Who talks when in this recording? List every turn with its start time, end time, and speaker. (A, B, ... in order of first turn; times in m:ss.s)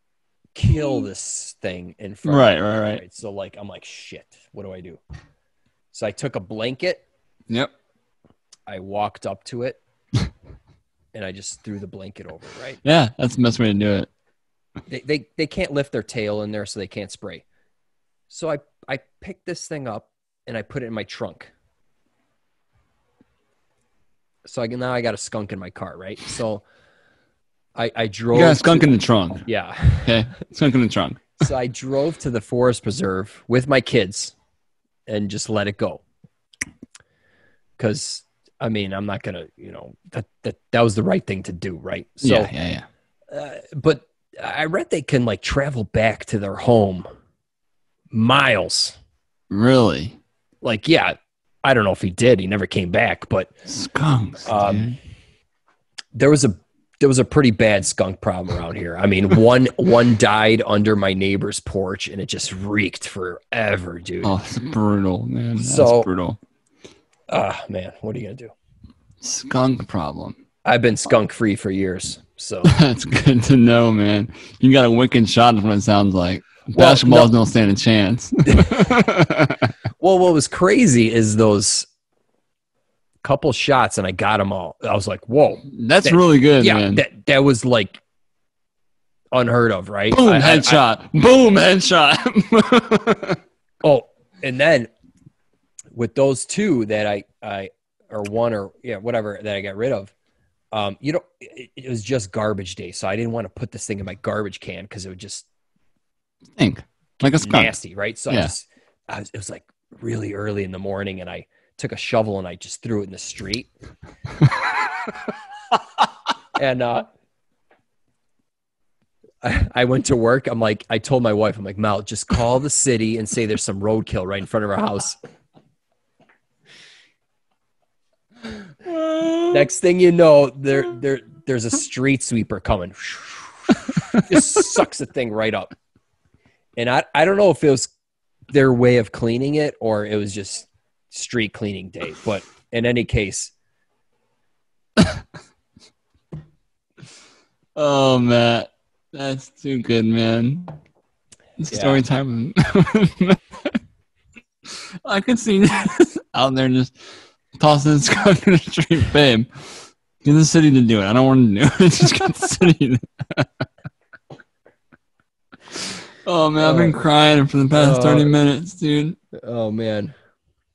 0:00.5-0:05.0 A
0:02.2-0:03.0 B
0:05.9-0:07.0 A
0:08.7-0:09.8 A
0:11.1-0:12.8 A
0:12.8-0:14.1 B
0:14.9-0:17.4 A
0:18.3-0:21.5 A
0:24.4-0:26.6 A
0:27.8-0:28.9 A
0:28.3-0:29.4 B
0:29.4-0:30.2 A
0:30.0-0:31.4 B
0:31.4-0:34.3 A
0:35.1-0:36.0 A
0:37.8-0:42.5 A
0:42.2-0:42.9 B
0:43.3-0:47.0 A
0:48.1-0:49.0 A
0:49.5-0:50.2 B
0:50.6-0:53.5 A
0:53.6-0:55.0 B
0:54.4-0:54.9 A
0:56.1-1:04.3 A
1:04.2-1:06.4 B
1:05.6-1:06.1 A
1:07.3-1:08.5 A
1:09.2-1:10.4 B
1:10.6-1:12.7 A
1:12.6-1:19.7 B
1:16.7-1:17.3 A
1:18.4-1:18.9 A
1:20.0-1:21.9 A
1:23.2-1:28.0 A
1:25.7-1:27.0 B
1:29.3-1:30.8 A
1:30.1-1:33.4 B
1:33.8-1:34.9 A
1:35.9-1:40.1 A
1:40.7-1:45.4 A
1:46.6-1:47.7 B
1:47.3-1:53.7 A
1:56.6-1:57.1 A
1:59.4-2:05.2 A
2:08.8-2:09.5 B
2:09.5-2:15.7 A
2:16.8-2:17.9 A
2:18.5-2:23.5 A
2:27.7-2:30.8 B
2:31.6-2:33.7 B
2:31.7-2:32.0 A
2:34.6-2:36.9 B
2:37.6-2:39.7 B
2:40.2-2:43.6 B
2:45.7-2:49.2 B
2:46.6-2:47.1 A
2:47.7-2:48.3 A
2:49.3-2:50.1 A